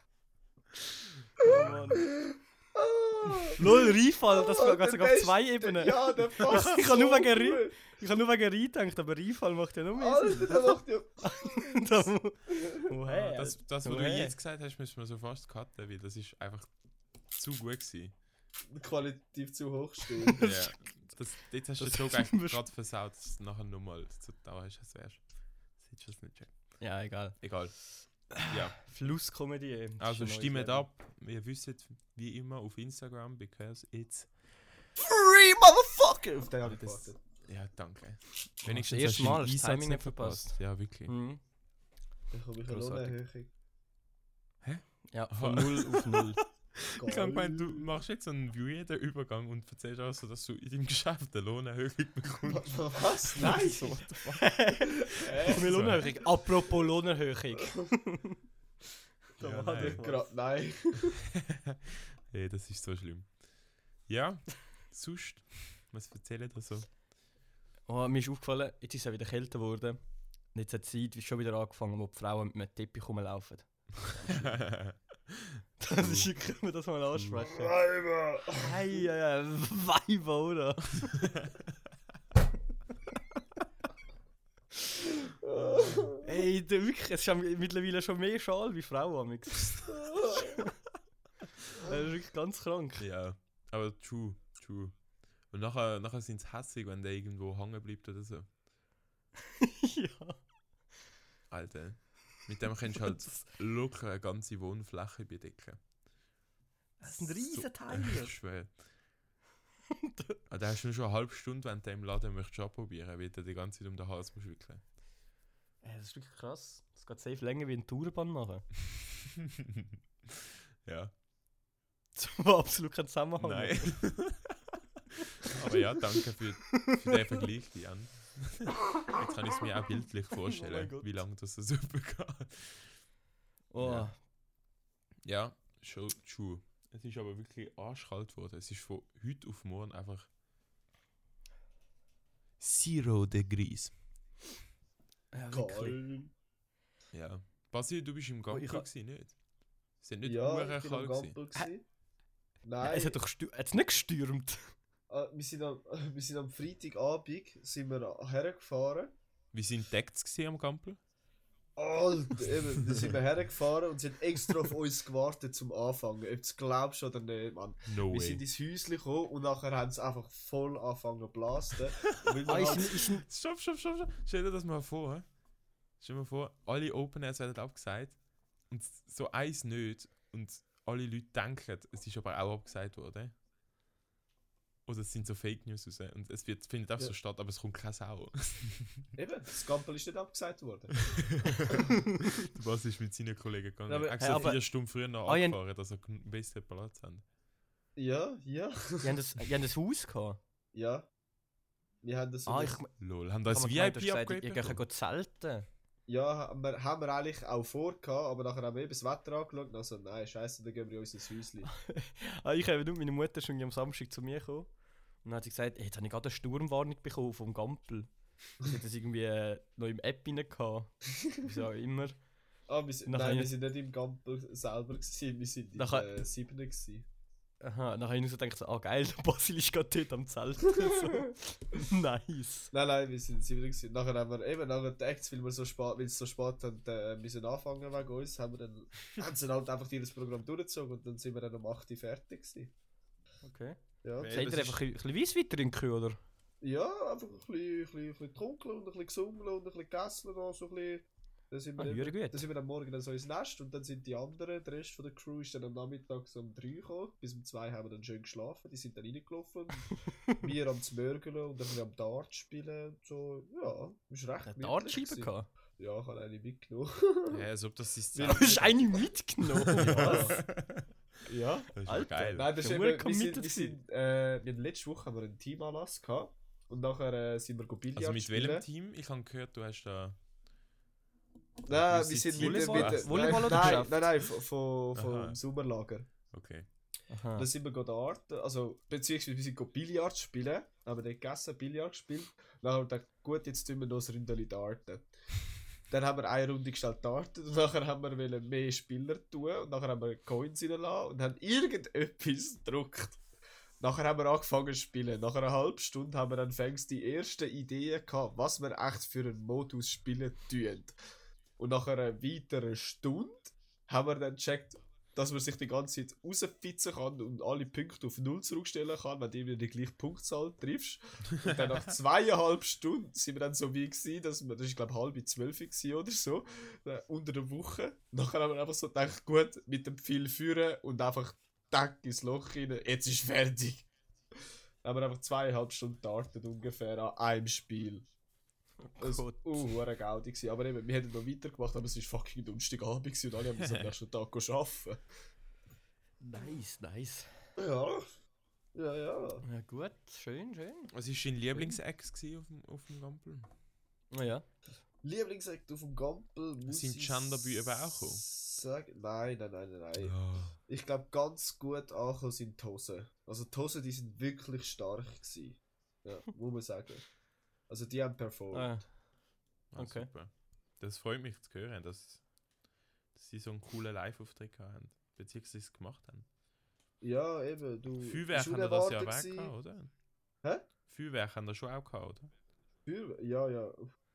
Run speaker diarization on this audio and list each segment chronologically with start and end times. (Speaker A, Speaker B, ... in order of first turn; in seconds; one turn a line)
Speaker A: 1.4-2.1
Speaker B: 2.1-7.8
Speaker A: 3.6-14.4
Speaker B: 10.0-11.8
Speaker B: 12.5-12.8
Speaker C: 13.1-16.7
Speaker C: 17.3-18.1
Speaker B: 18.7-20.5
Speaker A: 20.4-20.7
Speaker C: 20.4-25.2
Speaker A: 21.8-22.6
Speaker C: 25.8-26.7
Speaker A: 26.8-27.4
Speaker C: 27.4-29.1
Speaker A: 27.9-30.9
Speaker C: 30.0-34.3
Speaker B: 35.0-37.2
Speaker C: 36.7-41.1
Speaker A: 38.6-41.4
Speaker B: 42.3-43.5
Speaker A: 42.7-43.2
Speaker C: 44.6-54.6
Speaker A: 45.1-46.4
Speaker B: 47.0-47.9
Speaker B: 52.5-53.9
Speaker A: 54.3-58.4
Speaker B: 55.1-55.7
Speaker C: 55.2-56.2
Speaker C: 59.4-60.0
Speaker A: 59.4-60.3
Speaker B: 59.7-61.2
Speaker C: 61.4-63.3
Speaker C: 64.1-66.9
Speaker A: 67.9-70.0
Speaker A: 70.5-74.6
Speaker C: 74.3-76.3
Speaker A: 75.8-77.8
Speaker B: 77.5-78.7
Speaker A: 78.5-81.2
Speaker B: 85.4-86.4
Speaker A: 86.2-90.7
Speaker B: 89.9-90.6
Speaker A: 91.8-93.0
Speaker C: 93.0-95.0
Speaker C: 95.5-98.5
Speaker A: 99.6-100.4
Speaker C: 101.5-105.8
Speaker A: 103.0-103.4
Speaker A: 107.0-108.3
Speaker C: 107.0-108.7
Speaker A: 110.0-110.4
Speaker C: 110.5-114.8
Speaker A: 115.8-118.7
Speaker C: 119.6-119.9
Speaker C: 120.8-121.1
Speaker A: 122.2-124.0
Speaker C: 123.4-124.5
Speaker C: 125.4-132.9
Speaker A: 126.8-127.1
Speaker A: 130.5-131.2
Speaker A: 133.7-134.2
Speaker C: 133.8-134.1
Speaker C: 135.2-140.3
Speaker C: 142.6-143.9
Speaker A: 145.3-146.0
Speaker B: 145.5-146.3
Speaker C: 147.1-149.3
Speaker A: 148.5-148.8
Speaker C: 150.0-151.4
Speaker B: 150.2-151.8
Speaker B: 152.6-153.2
Speaker A: 152.8-154.7
Speaker B: 155.1-159.1
Speaker C: 159.5-161.0
Speaker B: 161.8-173.0
Speaker C: 167.9-168.4
Speaker C: 172.3-175.3
Speaker A: 172.4-173.3
Speaker C: 176.0-183.3
Speaker C: 184.9-189.1
Speaker B: 189.2-191.5
Speaker C: 191.1-197.2
Speaker A: 193.9-194.7
Speaker B: 194.2-194.5
Speaker A: 195.2-195.6
Speaker B: 198.0-199.1
Speaker A: 199.0-200.4
Speaker B: 200.7-201.1
Speaker B: 202.0-202.8
Speaker A: 202.5-202.9
Speaker C: 203.0-204.8
Speaker A: 203.5-205.7
Speaker B: 206.1-211.7
Speaker A: 211.7-214.7
Speaker A: 215.2-218.1
Speaker A: 218.6-222.2
Speaker B: 222.7-227.1
Speaker A: 223.1-223.5
Speaker A: 225.8-226.1
Speaker A: 227.6-232.7
Speaker B: 230.8-231.2
Speaker B: 232.7-242.7
Speaker A: 243.4-246.2
Speaker B: 244.0-244.4
Speaker C: 244.2-244.8
Speaker B: 246.6-267.4
Speaker A: 251.8-252.4
Speaker A: 264.5-265.5
Speaker C: 267.3-269.1
Speaker B: 268.1-268.6
Speaker A: 268.2-270.4
Speaker C: 269.6-270.9
Speaker B: 269.7-270.4
Speaker B: 271.3-271.7
Speaker C: 271.8-272.5
Speaker A: 271.8-273.8
Speaker B: 272.3-278.6
Speaker C: 277.9-280.2
Speaker B: 281.7-286.1
Speaker C: 281.7-283.9
Speaker A: 282.4-284.0
Speaker C: 284.9-285.4
Speaker C: 286.3-286.7
Speaker A: 287.1-287.5
Speaker B: 287.4-295.1
Speaker B: 295.9-303.2
Speaker B: 303.8-311.0
Speaker B: 311.6-333.9
Speaker B: 334.8-338.1
Speaker A: 338.8-339.6
Speaker B: 339.0-345.0
Speaker A: 346.2-347.3
Speaker B: 347.6-348.1
Speaker B: 348.8-349.4
Speaker A: 349.4-350.9
Speaker C: 350.9-353.5
Speaker A: 354.1-354.7
Speaker B: 355.0-367.1
Speaker C: 356.7-358.2
Speaker C: 360.0-360.6
Speaker B: 367.7-368.8
Speaker A: 368.5-368.9
Speaker C: 369.7-372.2
Speaker A: 369.8-370.1
Speaker C: 373.1-376.3
Speaker B: 377.0-379.5
Speaker C: 378.0-379.9
Speaker C: 380.9-382.3
Speaker B: 382.9-383.9